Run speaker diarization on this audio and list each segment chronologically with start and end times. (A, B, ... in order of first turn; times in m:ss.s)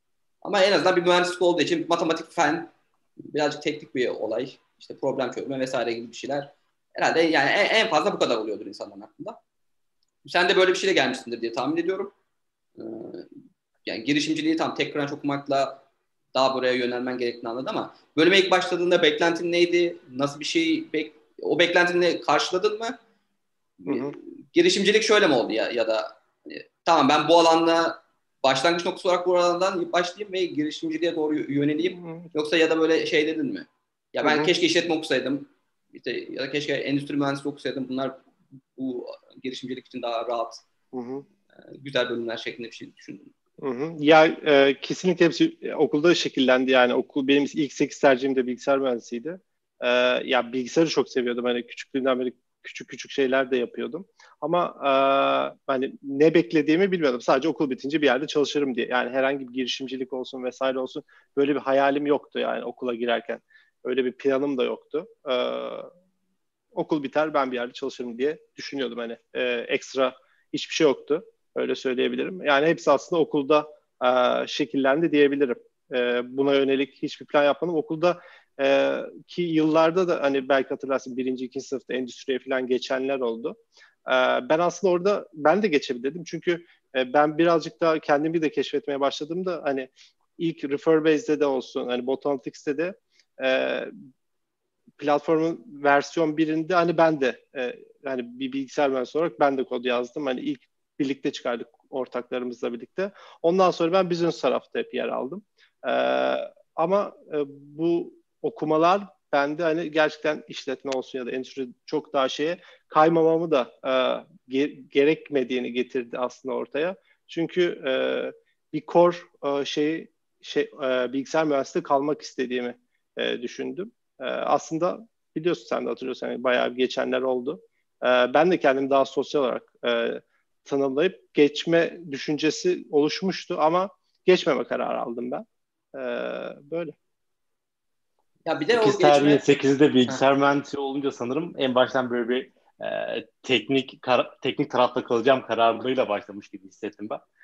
0:00.4-0:02.7 A
0:03.3-0:09.4 A
0:10.2-0:12.1 A
0:12.8-0:13.2 A
0:13.8-0:15.8 A
0:16.3-0:23.0 A
0:23.8-0:38.2 A
0:23.8-0:24.1 B
0:32.0-0:32.3 B
0:34.2-0:34.5 B
0:38.8-0:40.6 A
0:40.9-0:41.2 B
0:41.7-0:43.3 A
0:43.6-1:05.9 B
1:06.7-1:33.9 B
1:35.0-2:16.9 B
2:18.4-2:19.4 A
2:18.8-2:27.2 C